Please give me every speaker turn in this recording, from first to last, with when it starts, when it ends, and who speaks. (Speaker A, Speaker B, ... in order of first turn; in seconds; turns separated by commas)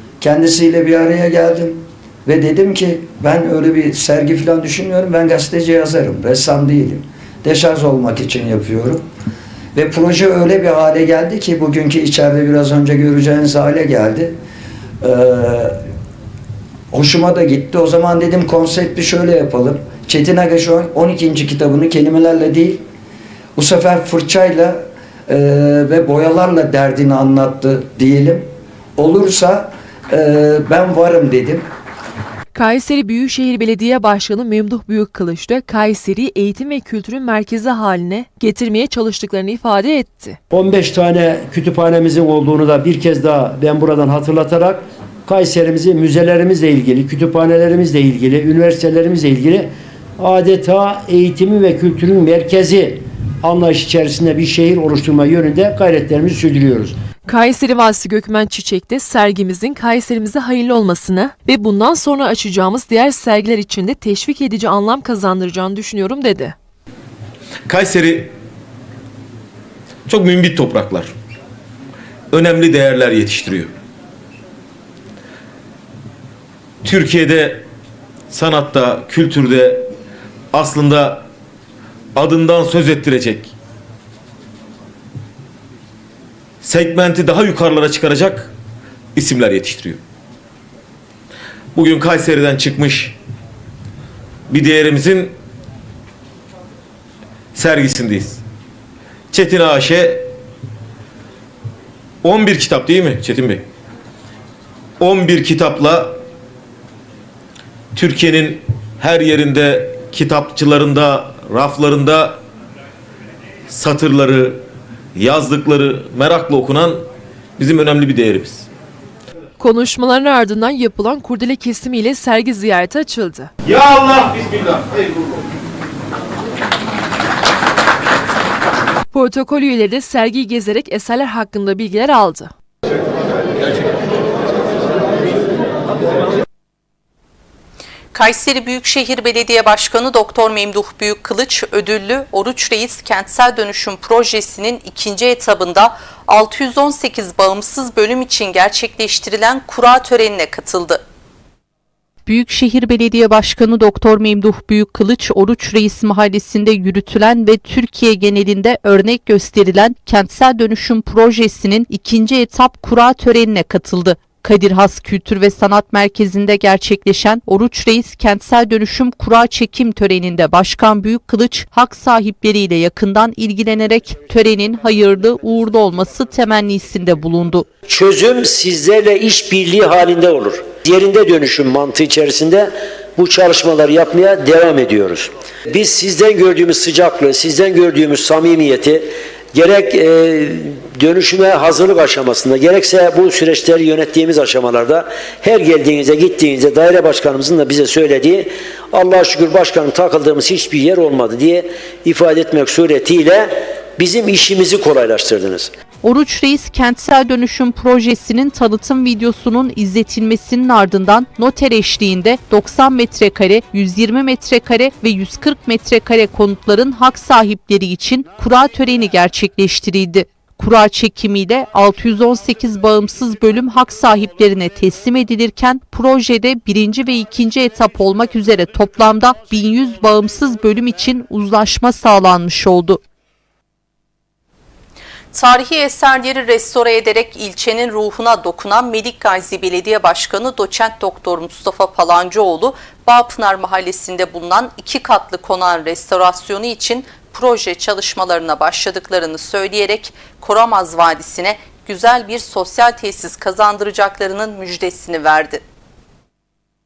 Speaker A: 0.2-9.0, Speaker A: 9.8-14.4, Speaker A: 15.0-15.8, Speaker A: 16.9-22.8, Speaker A: 23.6-31.7, Speaker B: 32.5-40.4, Speaker C: 40.5-57.0, Speaker B: 57.3-66.5, Speaker D: 67.7-68.3, Speaker D: 70.1-71.1, Speaker D: 72.3-73.7, Speaker D: 76.8-77.7, Speaker D: 78.3-79.9, Speaker D: 80.5-81.2, Speaker D: 82.2-83.5, Speaker D: 86.6-88.5, Speaker D: 89.2-90.0, Speaker D: 91.8-93.2, Speaker D: 94.5-95.3, Speaker D: 97.5-98.4, Speaker D: 99.3-100.3, Speaker D: 102.2-103.7, Speaker D: 105.0-106.2, Speaker D: 108.0-112.4, Speaker D: 113.7-114.6, Speaker D: 115.2-117.1, Speaker D: 117.6-118.7, Speaker B: 119.6-123.5, Speaker D: 123.6-125.0, Speaker B: 129.1-132.5, Speaker E: 138.1-151.0, Speaker F: 152.3-177.7, Speaker G: 177.9-205.7, Speaker F: 206.0-233.0, Speaker E: 235.3-255.6